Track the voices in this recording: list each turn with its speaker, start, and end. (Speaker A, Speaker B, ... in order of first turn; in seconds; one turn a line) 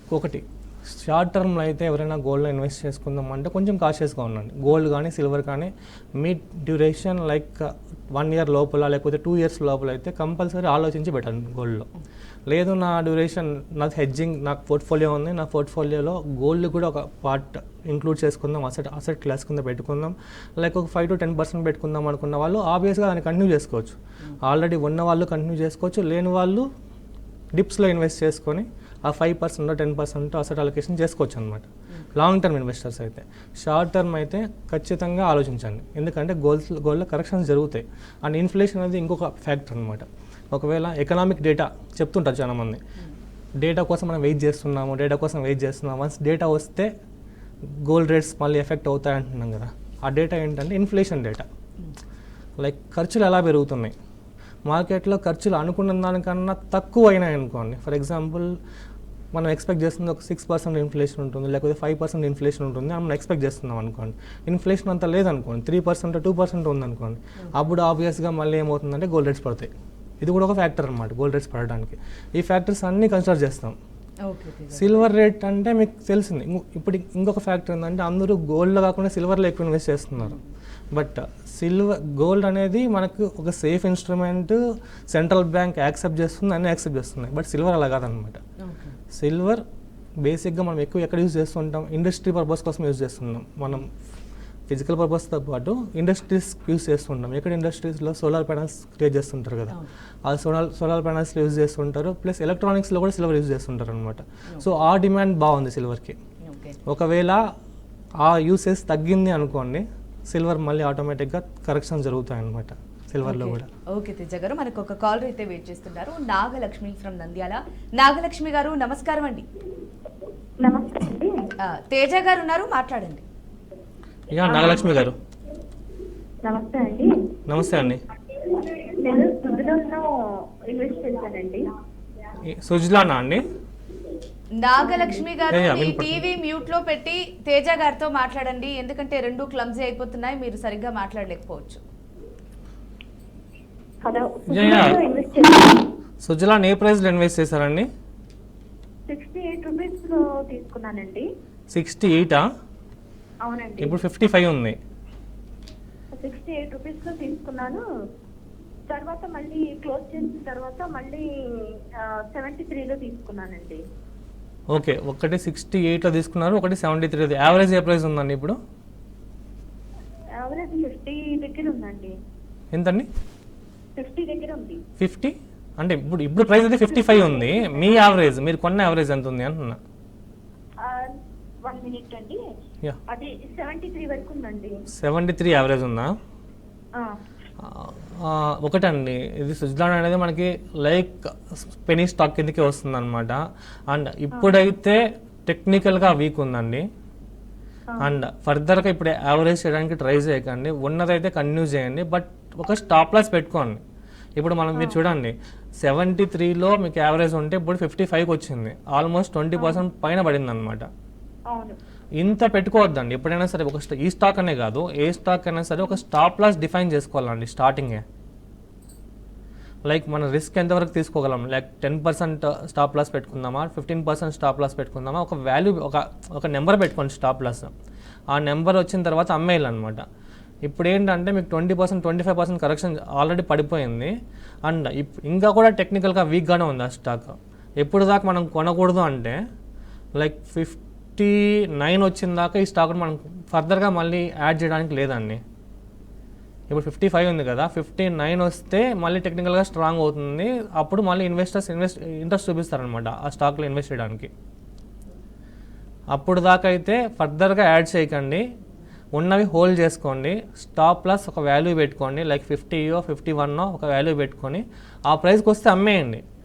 Speaker A: 0.1-11.9
Speaker A: 12.5-26.7
Speaker A: 27.6-42.8
Speaker A: 43.6-46.9
Speaker A: 47.7-51.5
Speaker A: 52.6-53.9
Speaker A: 54.7-58.5
Speaker A: 59.3-73.8
Speaker B: 74.3-75.1
Speaker A: 74.7-80.4
Speaker A: 80.9-88.4
Speaker B: 88.6-89.0
Speaker A: 89.1-89.6
Speaker A: 90.2-93.9
Speaker A: 94.7-106.2
Speaker B: 106.4-106.8
Speaker A: 106.9-107.4
Speaker A: 108.2-113.7
Speaker B: 113.2-119.5
Speaker C: 120.6-121.4
Speaker B: 121.6-123.2
Speaker A: 124.3-125.2
Speaker C: 126.5-127.1
Speaker A: 127.5-128.0
Speaker C: 128.4-130.1
Speaker C: 130.7-131.7
Speaker A: 132.4-133.4
Speaker B: 134.6-141.8
Speaker C: 134.8-135.2
Speaker A: 135.5-136.3
Speaker C: 144.1-145.8
Speaker A: 144.5-145.0
Speaker A: 146.2-147.9
Speaker C: 149.1-151.3
Speaker A: 151.7-152.4
Speaker C: 153.4-154.0
Speaker A: 153.8-154.8
Speaker C: 156.2-157.8
Speaker C: 158.9-163.8
Speaker A: 164.7-168.6
Speaker C: 170.4-172.1
Speaker A: 172.7-173.1
Speaker C: 174.0-174.8
Speaker A: 175.0-179.8
Speaker C: 176.9-178.2
Speaker C: 180.8-181.1
Speaker C: 181.7-182.4
Speaker C: 183.1-184.9
Speaker A: 184.9-186.1
Speaker A: 187.6-196.8
Speaker C: 194.3-194.6
Speaker A: 198.0-203.8
Speaker A: 204.4-210.9
Speaker C: 211.5-211.8
Speaker A: 212.2-218.0
Speaker A: 219.9-227.7
Speaker A: 228.3-230.0
Speaker A: 230.7-234.1
Speaker A: 234.7-239.4
Speaker A: 240.2-245.4
Speaker A: 246.7-254.3
Speaker A: 256.1-258.4
Speaker A: 259.1-266.2